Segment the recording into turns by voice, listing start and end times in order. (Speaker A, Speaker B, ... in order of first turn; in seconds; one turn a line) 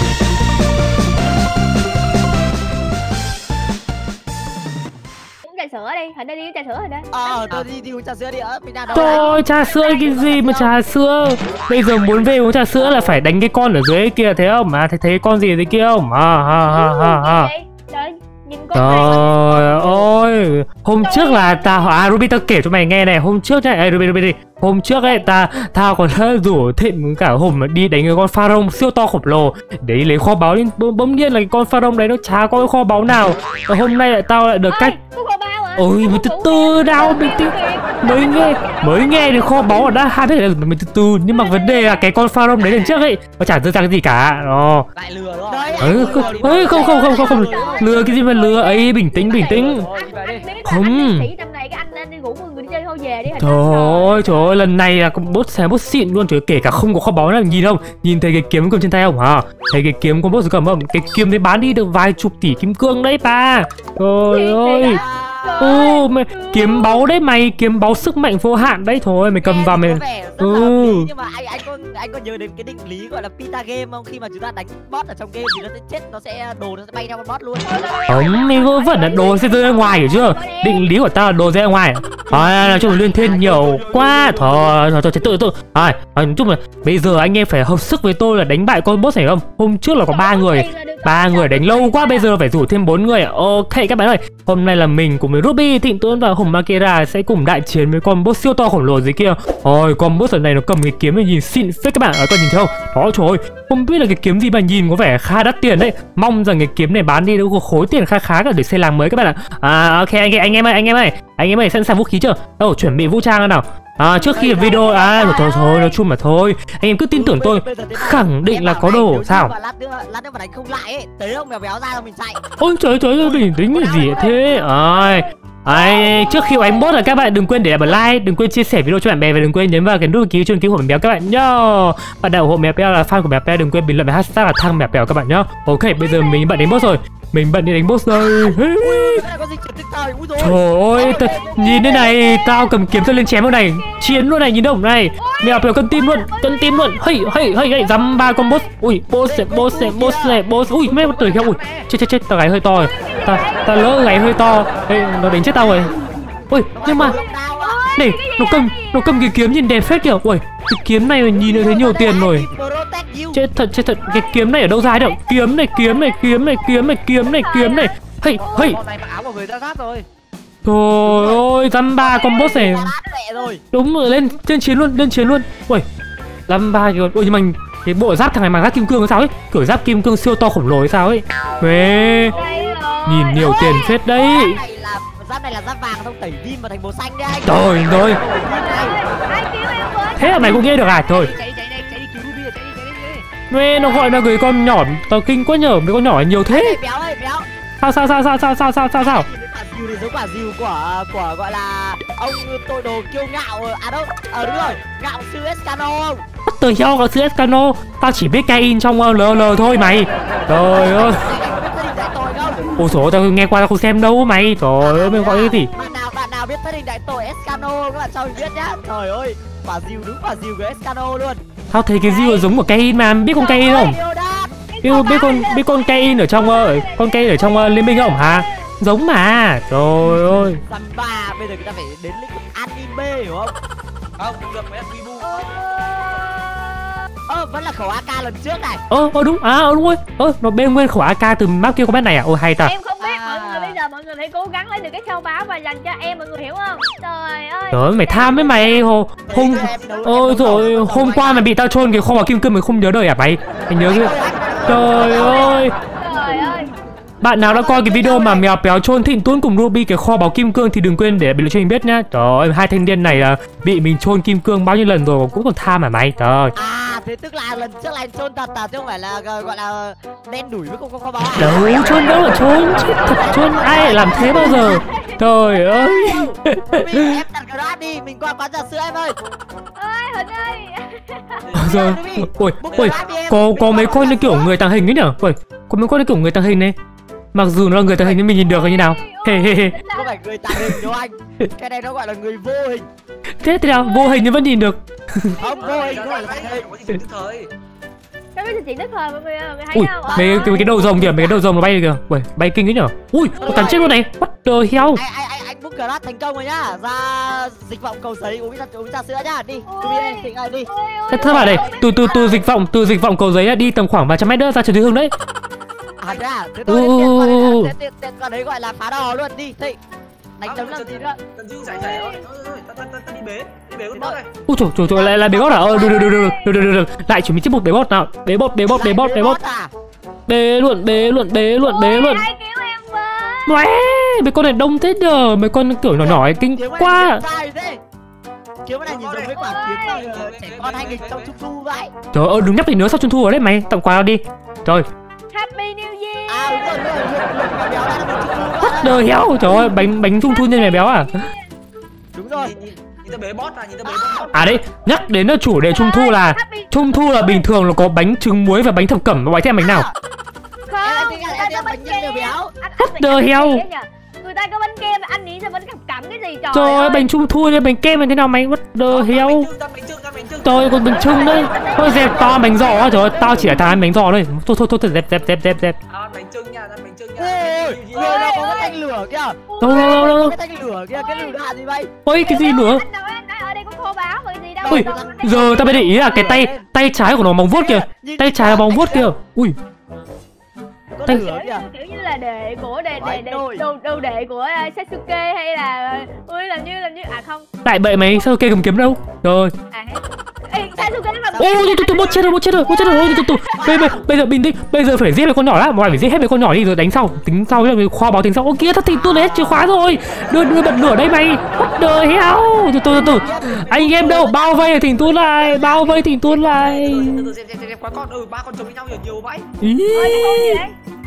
Speaker A: 5.4-7.5
Speaker B: 7.1-9.4
Speaker A: 8.9-10.8
Speaker C: 8.9-17.5
Speaker A: 16.6-19.3
Speaker C: 18.7-35.0
Speaker D: 19.2-20.1
Speaker A: 21.0-21.9
Speaker A: 25.0-25.3
Speaker A: 34.7-39.7
Speaker C: 35.8-44.9
Speaker A: 41.3-42.1
Speaker D: 42.6-43.0
Speaker D: 45.0-46.9
Speaker B: 45.5-48.1
Speaker C: 45.8-49.9
Speaker A: 46.7-54.5
Speaker D: 49.5-50.5
Speaker C: 50.6-51.3
Speaker C: 53.4-65.0
Speaker A: 64.2-67.1
Speaker B: 64.8-65.9
Speaker C: 65.6-71.1
Speaker B: 69.4-77.8
Speaker A: 77.6-80.9
Speaker C: 78.1-119.5
Speaker B: 82.3-84.9
Speaker A: 90.0-92.3
Speaker B: 114.3-115.9
Speaker B: 117.1-122.4
Speaker C: 122.6-139.2
Speaker A: 123.7-125.3
Speaker B: 125.7-126.4
Speaker A: 136.0-136.8
Speaker B: 138.1-142.2
Speaker C: 140.4-155.9
Speaker A: 141.1-142.7
Speaker A: 143.7-144.2
Speaker A: 145.2-148.7
Speaker B: 149.2-150.4
Speaker D: 150.6-151.9
Speaker A: 152.8-154.3
Speaker B: 155.6-155.8
Speaker C: 156.5-157.2
Speaker B: 156.8-157.8
Speaker A: 157.6-159.1
Speaker C: 157.9-162.5
Speaker B: 161.4-163.4
Speaker C: 163.3-168.8
Speaker A: 165.7-166.5
Speaker A: 167.2-167.9
Speaker D: 168.4-170.1
Speaker C: 170.6-172.9
Speaker B: 171.0-171.5
Speaker B: 172.0-173.6
Speaker C: 173.7-175.8
Speaker C: 176.5-182.3
Speaker A: 182.3-183.8
Speaker B: 182.3-182.8
Speaker C: 183.1-184.6
Speaker B: 183.4-189.0
Speaker C: 187.5-188.2
Speaker A: 188.5-190.8
Speaker C: 190.2-191.3
Speaker D: 190.8-193.3
Speaker C: 193.5-196.8
Speaker B: 196.5-197.5
Speaker C: 197.8-199.3
Speaker B: 199.0-206.2
Speaker C: 206.5-211.2
Speaker A: 209.4-210.5
Speaker B: 210.7-212.7
Speaker C: 212.8-215.7
Speaker B: 214.8-221.4
Speaker A: 215.5-216.0
Speaker C: 221.7-224.0
Speaker B: 222.1-222.4
Speaker B: 223.4-224.6
Speaker A: 224.7-228.7
Speaker C: 224.8-230.6
Speaker B: 230.7-233.6
Speaker D: 234.2-235.9
Speaker A: 235.2-237.0
Speaker B: 237.3-238.8
Speaker C: 238.9-242.7
Speaker A: 242.6-248.9
Speaker B: 243.0-243.8
Speaker C: 247.7-254.1
Speaker B: 249.3-251.5
Speaker D: 249.4-250.7
Speaker B: 253.8-255.6
Speaker C: 254.7-255.7
Speaker A: 255.2-256.7
Speaker C: 257.2-266.5
Speaker B: 257.4-258.5
Speaker B: 266.6-271.7
Speaker C: 271.4-277.2
Speaker A: 272.8-276.2
Speaker B: 273.1-274.8
Speaker B: 276.8-279.1
Speaker A: 279.8-281.5
Speaker D: 281.4-282.0
Speaker B: 281.6-284.5
Speaker C: 281.6-286.8
Speaker D: 282.6-283.9
Speaker C: 287.3-289.8
Speaker A: 288.3-290.1
Speaker B: 289.9-292.9
Speaker C: 290.5-290.9
Speaker C: 293.4-295.4
Speaker A: 293.7-294.3
Speaker A: 295.4-296.0
Speaker B: 295.4-296.7
Speaker D: 295.6-297.5
Speaker A: 298.4-300.7
Speaker C: 299.7-305.0
Speaker B: 300.0-301.5
Speaker A: 303.4-304.0
Speaker B: 303.5-303.9
Speaker B: 304.9-312.4
Speaker A: 309.7-312.3
Speaker C: 311.1-315.1
Speaker B: 316.0-319.8
Speaker C: 316.7-317.7
Speaker B: 320.4-321.2
Speaker D: 320.4-324.3
Speaker A: 321.6-322.2
Speaker C: 324.5-329.4
Speaker B: 324.9-326.0
Speaker A: 325.6-326.5
Speaker B: 328.7-329.7
Speaker C: 330.3-332.3
Speaker A: 331.6-333.6
Speaker C: 333.5-337.2
Speaker B: 336.0-337.8
Speaker B: 338.6-341.9
Speaker D: 338.9-341.3
Speaker A: 339.3-340.0
Speaker C: 342.1-344.9
Speaker A: 345.3-346.9
Speaker B: 346.3-349.0
Speaker C: 348.6-351.2
Speaker A: 349.4-351.5
Speaker B: 352.1-352.5
Speaker D: 352.3-355.0
Speaker B: 353.9-354.3
Speaker C: 354.3-359.9
Speaker A: 355.7-357.5
Speaker B: 359.6-359.9
Speaker A: 360.7-367.1
Speaker B: 360.8-362.5
Speaker C: 362.8-363.6
Speaker C: 366.5-369.5
Speaker D: 368.9-371.7
Speaker C: 370.4-375.8
Speaker A: 370.9-373.7
Speaker D: 375.9-378.3
Speaker B: 377.2-381.9
Speaker A: 377.9-378.8
Speaker A: 379.5-380.2
Speaker C: 379.6-380.3
Speaker A: 380.9-381.4
Speaker C: 382.1-382.8
Speaker A: 382.2-386.4
Speaker B: 384.6-386.6
Speaker C: 384.7-389.6
Speaker B: 387.5-389.1
Speaker B: 391.0-391.6
Speaker A: 391.1-397.5
Speaker B: 392.9-393.7
Speaker C: 397.6-399.5
Speaker A: 399.7-403.7
Speaker B: 400.8-401.6
Speaker C: 401.4-417.3
Speaker B: 403.5-404.0
Speaker B: 412.9-416.1
Speaker D: 416.3-419.5
Speaker C: 419.6-420.6
Speaker A: 419.9-420.7